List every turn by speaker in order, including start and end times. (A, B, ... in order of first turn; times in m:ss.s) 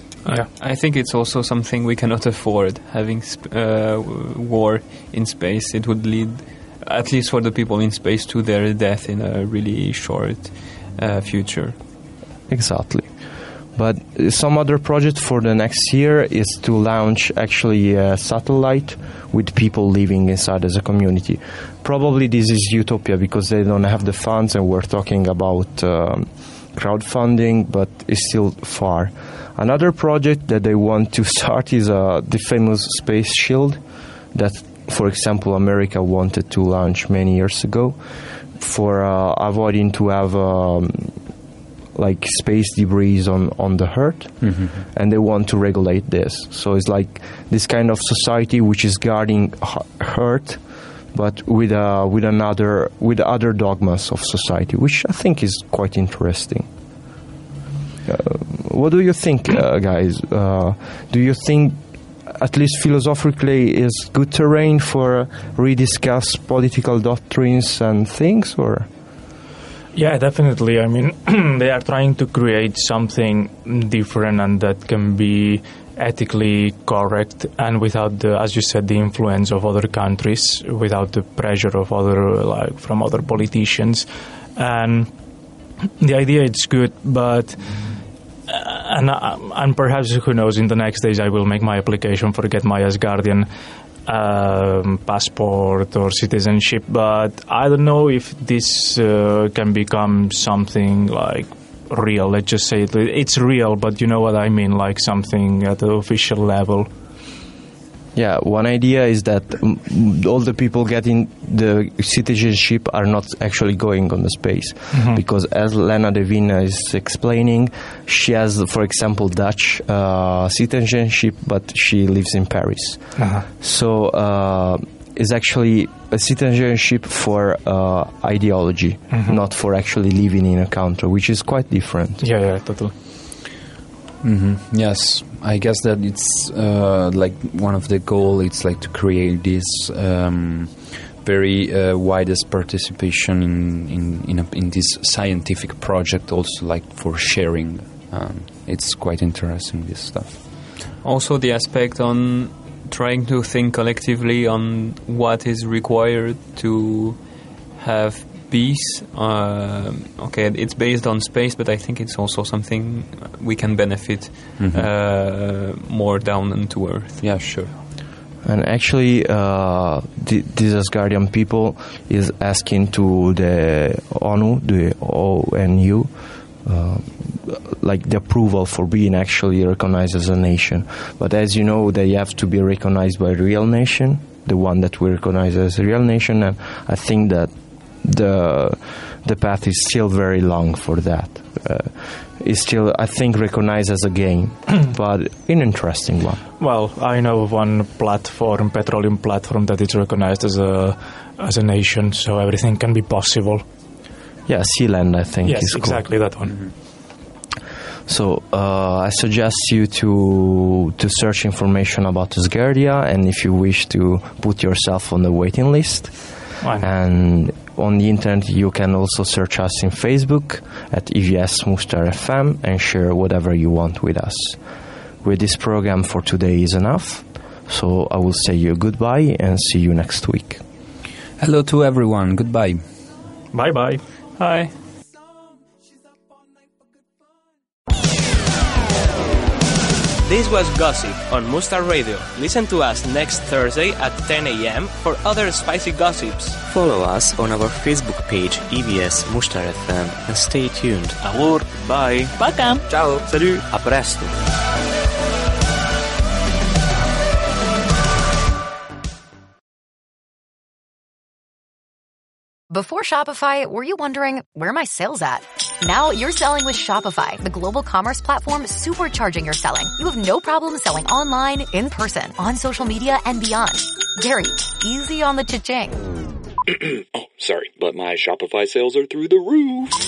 0:00.3-0:11.8 A
0:12.5-0:13.2 B
0:13.7-0:41.3 B
0:42.0-0:56.7 B
0:44.4-0:44.8 C
0:58.0-1:08.9 B
1:10.0-1:25.1 D
1:26.0-1:27.8 D
1:28.5-1:33.5 D
1:34.1-1:46.9 D
1:48.2-2:12.2 B
1:54.9-1:55.2 D
2:03.2-2:03.5 D
2:12.2-2:12.9 D
2:14.2-2:30.4 C
2:31.0-2:37.2 A
2:37.8-2:47.5 A
2:44.6-2:44.9 C
2:47.2-2:47.7 C
2:48.4-3:16.4 B
3:16.6-3:23.6 D
3:24.5-3:26.1 B
3:25.4-3:26.6 D
3:28.1-3:44.6 B
3:45.2-3:50.6 B
3:51.4-3:52.8 C
3:53.5-3:54.0 D
3:54.4-3:54.7 A
4:00.2-4:06.6 E
4:06.6-4:11.2 F
4:11.2-4:13.6 E
4:13.6-4:14.3 F
4:22.7-4:36.0 G
4:36.7-4:40.0 H